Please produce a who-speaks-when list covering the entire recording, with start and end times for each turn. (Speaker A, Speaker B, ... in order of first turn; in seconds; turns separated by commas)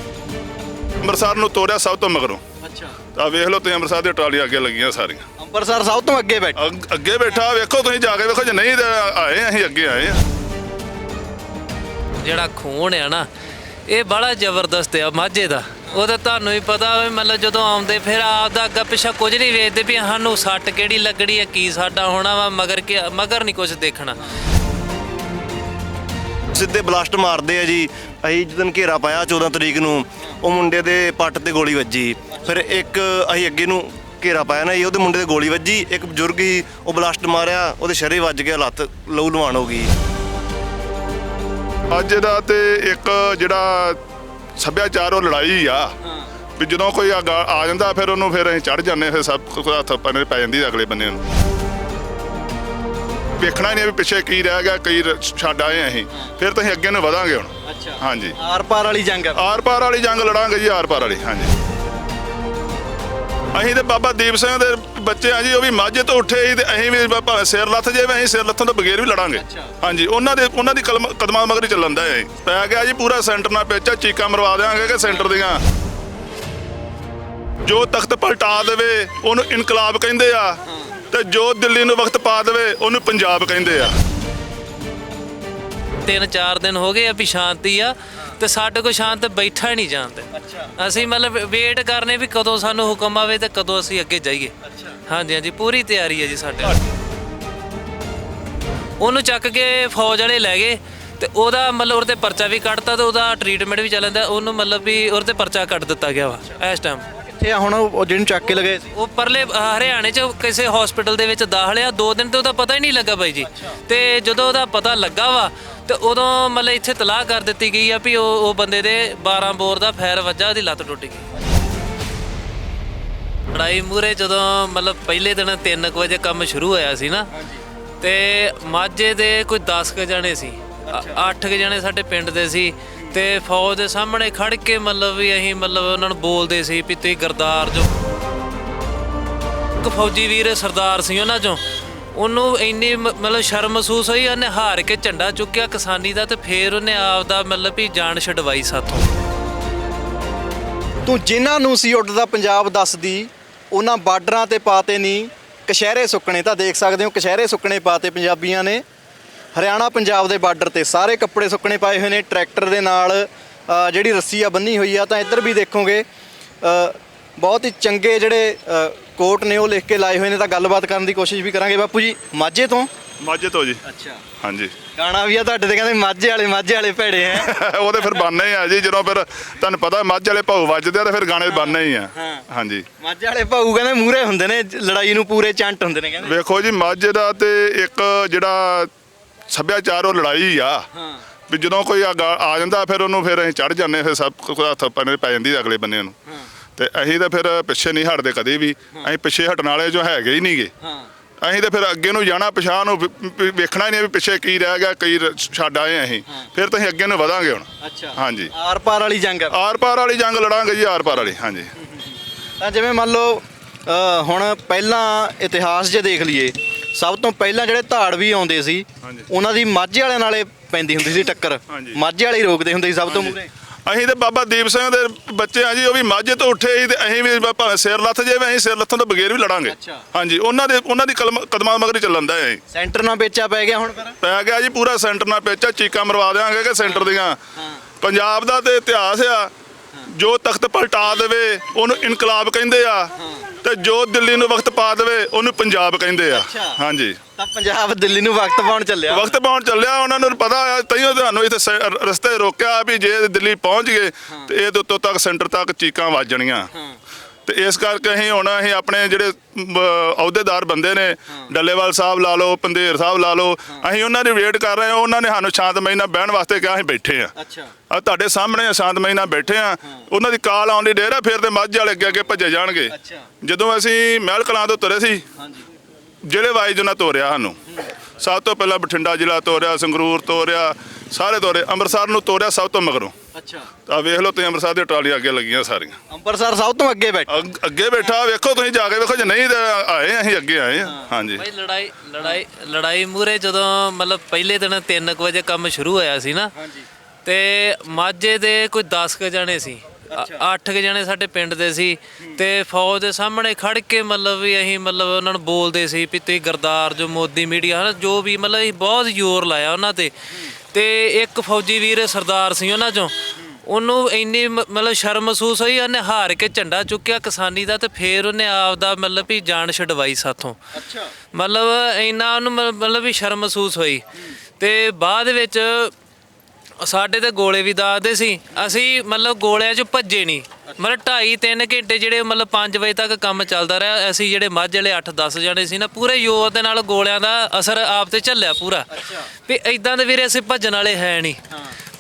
Speaker A: 1.0-2.4, Speaker B: 2.6-3.0, Speaker A: 3.2-5.2, Speaker B: 5.4-6.6, Speaker A: 6.6-10.2, Speaker C: 12.2-13.3, Speaker C: 13.9-24.2, Speaker D: 26.5-39.9, Speaker A: 41.9-44.0, Speaker A: 44.6-45.9, Speaker B: 46.0-46.3, Speaker A: 46.6-51.2, Speaker A: 53.4-58.4, Speaker B: 57.6-59.4, Speaker A: 59.4-61.5, Speaker A: 63.5-75.6, Speaker B: 69.3-69.8, Speaker A: 77.7-80.6, Speaker A: 81.1-84.0, Speaker C: 86.0-94.5, Speaker B: 90.3-90.7, Speaker B: 94.6-95.0, Speaker C: 95.1-96.8, Speaker C: 99.0-107.1, Speaker B: 107.1-108.9, Speaker C: 108.9-121.3, Speaker B: 113.5-113.8, Speaker C: 123.5-127.3, Speaker B: 127.4-127.6, Speaker C: 128.0-137.9, Speaker B: 130.9-131.2, Speaker C: 139.8-141.6, Speaker C: 142.1-149.1, Speaker B: 151.1-158.8, Speaker B: 159.5-166.1, Speaker B: 166.6-172.9, Speaker A: 173.2-173.8, Speaker B: 173.8-174.2, Speaker A: 174.4-174.8, Speaker B: 174.9-177.5, Speaker A: 177.3-182.9, Speaker B: 181.5-182.4, Speaker B: 183.0-186.3, Speaker A: 186.2-188.9, Speaker A: 189.5-190.8, Speaker B: 190.9-191.2, Speaker A: 191.5-196.2, Speaker A: 196.8-200.7, Speaker B: 200.8-201.1, Speaker A: 201.4-208.5, Speaker B: 207.8-209.5, Speaker A: 209.5-211.7, Speaker B: 211.8-223.5, Speaker A: 221.7-222.0, Speaker A: 223.1-232.6, Speaker B: 229.7-230.0, Speaker B: 232.7-234.2, Speaker A: 234.2-237.4, Speaker B: 236.8-237.8, Speaker A: 238.0-239.5, Speaker A: 240.1-247.2, Speaker B: 243.2-243.4, Speaker B: 246.3-246.8, Speaker B: 247.4-249.4, Speaker A: 249.1-256.7, Speaker A: 257.5-267.3, Speaker B: 267.4-267.7, Speaker A: 267.9-275.2, Speaker B: 272.9-273.3, Speaker B: 275.4-275.6, Speaker A: 276.2-277.6, Speaker A: 278.2-283.1, Speaker B: 283.4-283.7, Speaker A: 283.9-286.0, Speaker B: 286.1-287.3, Speaker A: 287.3-291.4, Speaker B: 290.8-291.1, Speaker C: 291.4-296.5, Speaker B: 296.6-296.9, Speaker C: 297.2-310.1, Speaker B: 300.1-300.4, Speaker C: 310.7-320.6, Speaker B: 320.8-321.1, Speaker C: 321.3-324.0, Speaker C: 324.6-325.9, Speaker C: 326.8-341.4, Speaker B: 338.9-339.3, Speaker B: 341.5-341.8